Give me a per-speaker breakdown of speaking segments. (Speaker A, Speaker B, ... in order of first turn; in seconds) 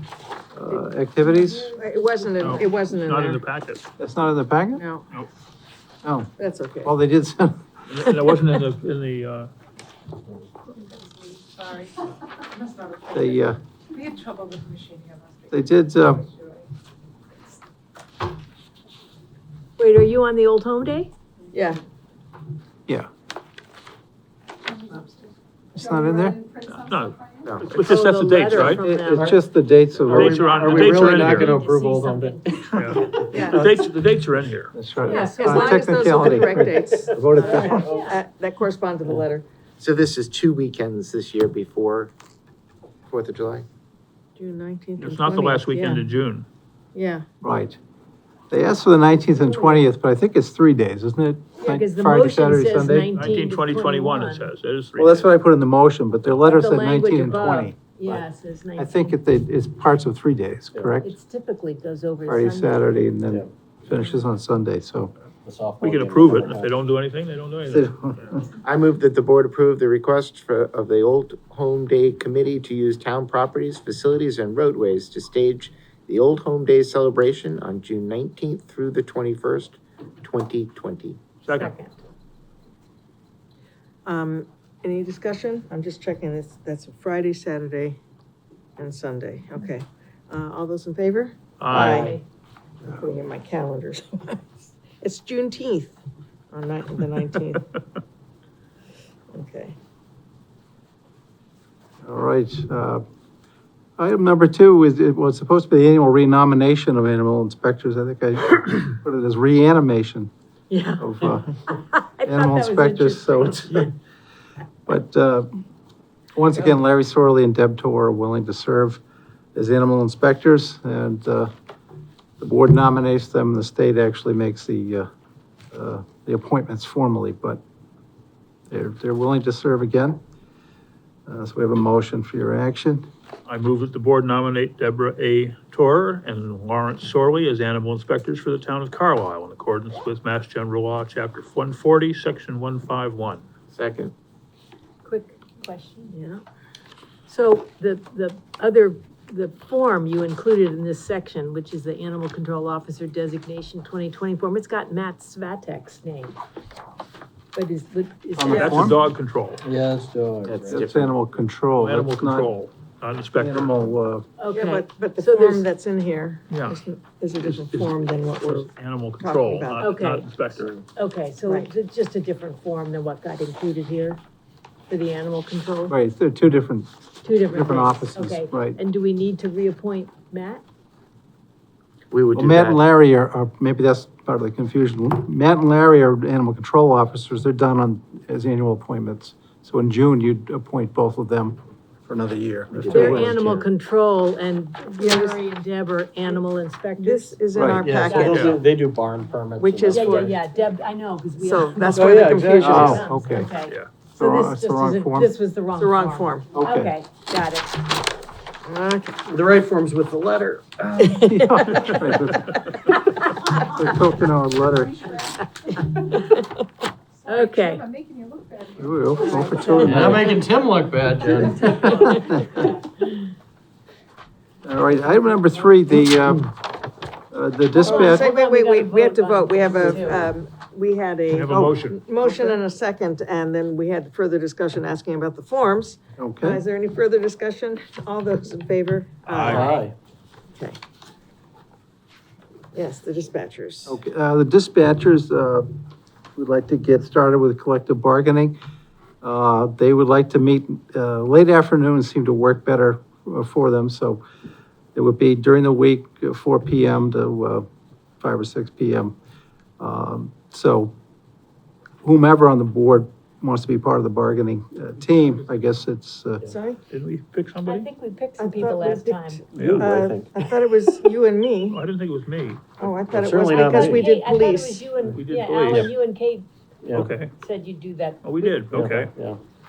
Speaker A: 0.5-1.8, 4.0-4.8, 6.0-6.3, 6.8-8.1, 13.1-13.6, 15.5-16.3, 25.7-26.4, 28.6-30.4, 34.7-37.9, 47.4-47.8, 48.5-53.1, 55.0-58.2, 58.8-61.1, 62.3-65.1, 67.7-68.5, 102.0-103.0, 104.0-110.3, 111.0-111.6, 112.2-113.9, 114.9-115.5, 116.3-119.0, 119.5-121.5, 122.4-125.1, 125.7-127.6, 128.7-130.2, 131.3-133.1, 158.4-159.0, 160.7-162.5, 163.4-164.2, 175.9-178.8, 182.3-193.6, 197.5-197.9, 202.6-203.5, 204.2-205.3, 206.6-206.9, 211.0-212.7, 213.5-215.2, 218.8-220.3, 221.6-222.6, 224.6-226.6, 227.3-228.3, 236.2-236.6, 243.9-245.7, 246.4-248.6, 249.2-254.2, 254.9-257.6, 258.2-259.1, 259.8-260.9, 262.0-266.5
Speaker B: 1.7-3.4, 4.8-5.1, 6.4-6.9, 21.5-21.8, 33.3-33.7, 35.1-39.5, 44.4-46.1, 47.0-47.2, 84.1-88.0, 88.8-92.2, 92.9-96.0, 96.5-97.6, 99.3-99.8, 110.7-111.0, 146.1-146.4, 164.5-169.9, 195.0-195.4, 197.0-198.6, 199.6-200.4, 201.4-203.0, 205.8-206.5, 208.7-209.2, 227.8-239.9, 242.7-243.9, 266.5-266.8, 268.4-271.8, 272.8-274.9
Speaker C: 2.4-3.9, 7.9-9.5, 26.7-28.8, 30.1-31.6, 32.7-34.7, 45.0-46.5, 53.1-55.3, 65.8-67.9, 81.5-81.7, 91.6-92.2, 133.5-143.5, 158.5-159.6, 161.8-163.9, 166.5-166.8, 167.4-170.7, 231.3-232.0, 239.3-239.8, 266.9-267.9, 269.6-269.9, 271.7-272.6, 275.1-275.9, 276.9-277.3, 278.2-279.1
Speaker D: 11.5-11.9, 12.6-13.0, 13.9-15.3, 217.9-218.7
Speaker E: 19.8-21.1, 27.8-29.4, 30.2-33.1, 35.0-36.5, 37.3-38.2, 49.4-49.8, 51.6-54.5, 56.4-59.2, 61.0-63.0, 81.5-82.0, 91.8-92.2, 111.9-113.9, 145.1-146.2, 147.3-156.4, 157.5-159.0, 164.4-165.7, 169.8-170.3, 170.9-174.2, 174.9-176.0, 177.2-180.6, 192.9-197.3, 198.1-198.5, 199.9-207.8, 211.0-212.8, 215.7-216.4, 217.3-217.9, 219.2-220.4, 221.9-222.4, 227.8-230.3, 267.7-269.4, 273.5-276.5, 277.4-278.6
Speaker F: 27.4-27.7, 39.8-42.1, 43.1-43.7, 68.6-81.2, 143.7-144.1, 160.4-161.1, 182.1-182.9, 192.7-193.6
Speaker G: 30.0-33.4, 60.7-61.0, 65.5-66.7, 159.6-160.8, 170.6-170.8, 197.8-200.4, 201.9-203.0, 209.2-211.1, 219.8-222.2, 239.4-239.9, 269.6-270.4, 272.9-274.1, 276.8-277.1, 278.7-279.4